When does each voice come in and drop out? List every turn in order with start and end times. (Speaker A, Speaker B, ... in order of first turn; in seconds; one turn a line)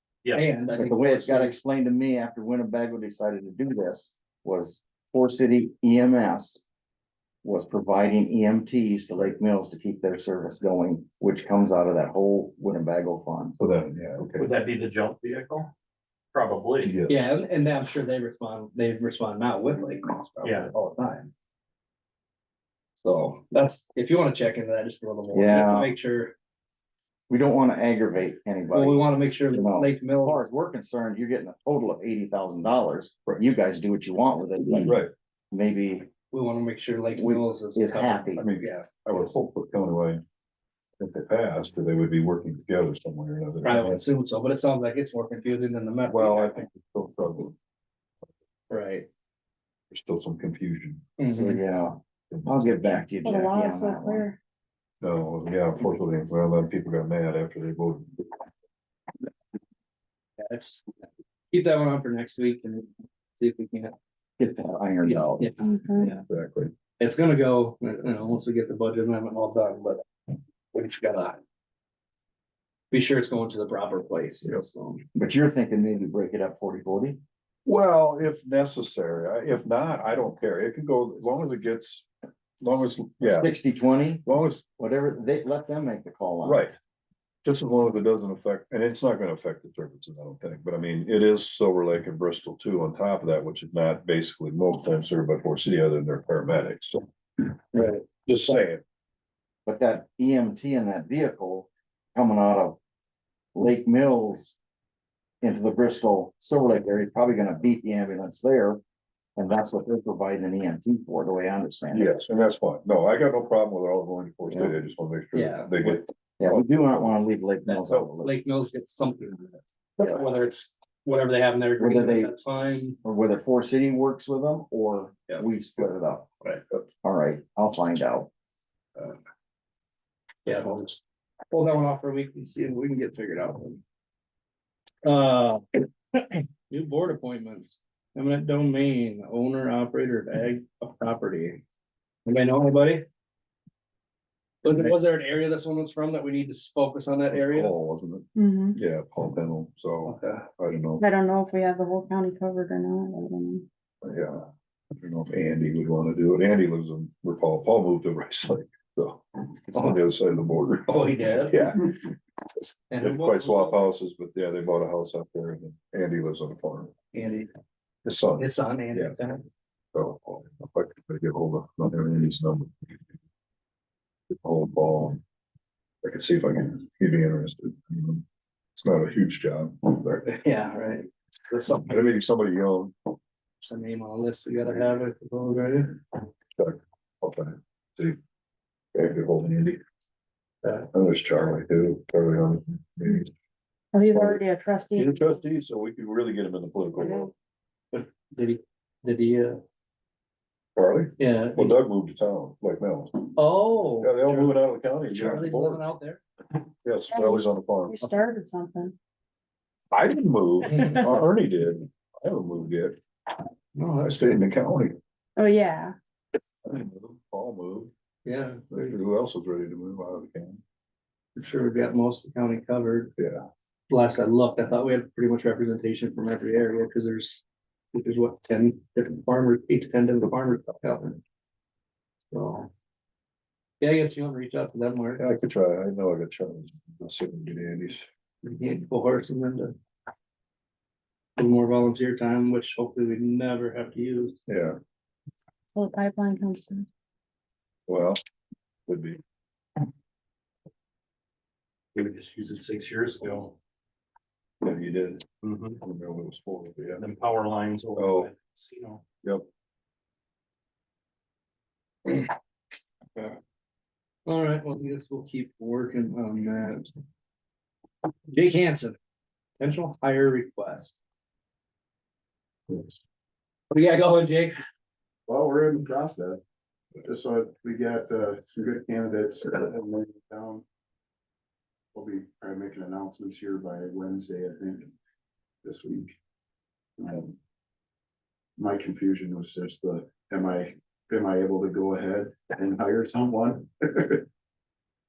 Speaker A: 0.3-1.6
Speaker B: 0.8-6.6
Speaker B: 7.4-13.6
Speaker C: 13.6-14.5
Speaker D: 14.3-15.7
Speaker D: 16.3-16.9
Speaker C: 16.8-17.3
Speaker A: 17.1-21.3
Speaker D: 20.4-20.7
Speaker A: 23.2-26.3
Speaker B: 25.3-25.9
Speaker B: 27.3-36.1
Speaker A: 28.7-30.5
Speaker C: 34.9-35.1
Speaker A: 36.3-39.3
Speaker B: 37.2-38.4
Speaker C: 38.4-40.2
Speaker C: 41.0-44.0
Speaker A: 43.6-46.6
Speaker C: 46.1-47.5
Speaker A: 48.7-49.1
Speaker C: 49.9-51.1
Speaker A: 51.2-51.6
Speaker B: 51.3-54.3
Speaker C: 52.3-53.1
Speaker E: 53.2-54.4
Speaker C: 55.0-58.3
Speaker A: 60.4-63.9
Speaker B: 64.4-65.5
Speaker A: 65.0-66.2
Speaker E: 65.6-66.1
Speaker C: 66.3-66.7
Speaker A: 67.0-70.0
Speaker A: 70.7-71.4
Speaker A: 72.9-75.0
Speaker B: 75.1-77.2
Speaker C: 77.6-82.1
Speaker C: 82.6-83.5
Speaker B: 83.2-86.7
Speaker C: 84.2-84.6
Speaker C: 86.4-86.7
Speaker C: 87.4-97.1
Speaker A: 97.7-98.6
Speaker C: 98.1-98.8
Speaker B: 99.7-102.8
Speaker B: 103.5-104.6
Speaker B: 105.4-108.8
Speaker B: 109.3-112.1
Speaker C: 111.9-117.2
Speaker A: 115.3-115.7
Speaker B: 116.4-118.4
Speaker A: 117.7-123.0
Speaker B: 121.8-122.3
Speaker B: 123.0-126.3
Speaker B: 127.0-128.3
Speaker A: 130.4-133.8
Speaker A: 135.0-141.6
Speaker A: 142.3-143.1
Speaker A: 144.6-147.7
Speaker C: 147.3-151.0
Speaker E: 148.4-148.8
Speaker A: 150.1-150.5
Speaker E: 151.0-153.7
Speaker C: 154.0-162.1
Speaker A: 160.9-161.7
Speaker A: 162.9-163.9
Speaker C: 163.0-166.9
Speaker A: 167.1-167.5
Speaker C: 168.1-169.1
Speaker A: 168.4-169.4
Speaker C: 169.9-172.9
Speaker C: 174.3-175.2
Speaker C: 176.0-178.2
Speaker C: 178.8-180.3
Speaker A: 180.2-182.1
Speaker C: 181.9-183.0
Speaker A: 183.6-186.0
Speaker C: 186.6-188.2
Speaker C: 188.9-189.8
Speaker A: 190.6-190.9
Speaker C: 190.9-193.3
Speaker E: 193.9-195.4
Speaker C: 194.1-197.3
Speaker E: 197.0-197.3
Speaker A: 197.9-199.6
Speaker C: 200.8-203.4
Speaker A: 201.2-201.8
Speaker A: 203.4-204.6
Speaker C: 204.0-205.8
Speaker A: 205.1-206.2
Speaker C: 206.8-208.0
Speaker E: 207.1-208.9
Speaker C: 209.9-213.0
Speaker A: 210.7-211.0
Speaker A: 213.8-214.5
Speaker C: 214.0-215.0
Speaker E: 215.4-215.9
Speaker C: 216.7-217.9
Speaker A: 218.2-219.0
Speaker C: 218.7-220.6
Speaker A: 221.4-223.1
Speaker C: 223.2-223.4
Speaker A: 223.9-231.2
Speaker A: 232.3-232.7
Speaker A: 233.8-235.2
Speaker C: 235.2-238.1
Speaker A: 238.4-239.8
Speaker A: 241.4-244.4
Speaker C: 244.5-244.8
Speaker E: 245.8-246.9
Speaker C: 247.9-248.2
Speaker C: 248.9-249.2
Speaker D: 251.9-253.6
Speaker C: 254.6-255.2
Speaker D: 255.4-255.8
Speaker C: 255.8-257.0
Speaker D: 257.0-259.0
Speaker C: 257.9-258.3
Speaker A: 264.2-266.9
Speaker A: 268.3-269.0
Speaker A: 269.6-271.0
Speaker A: 273.7-274.6
Speaker F: 275.3-276.4
Speaker F: 277.0-280.6
Speaker F: 281.9-284.9
Speaker F: 285.6-286.1
Speaker F: 287.0-287.3
Speaker F: 288.6-294.2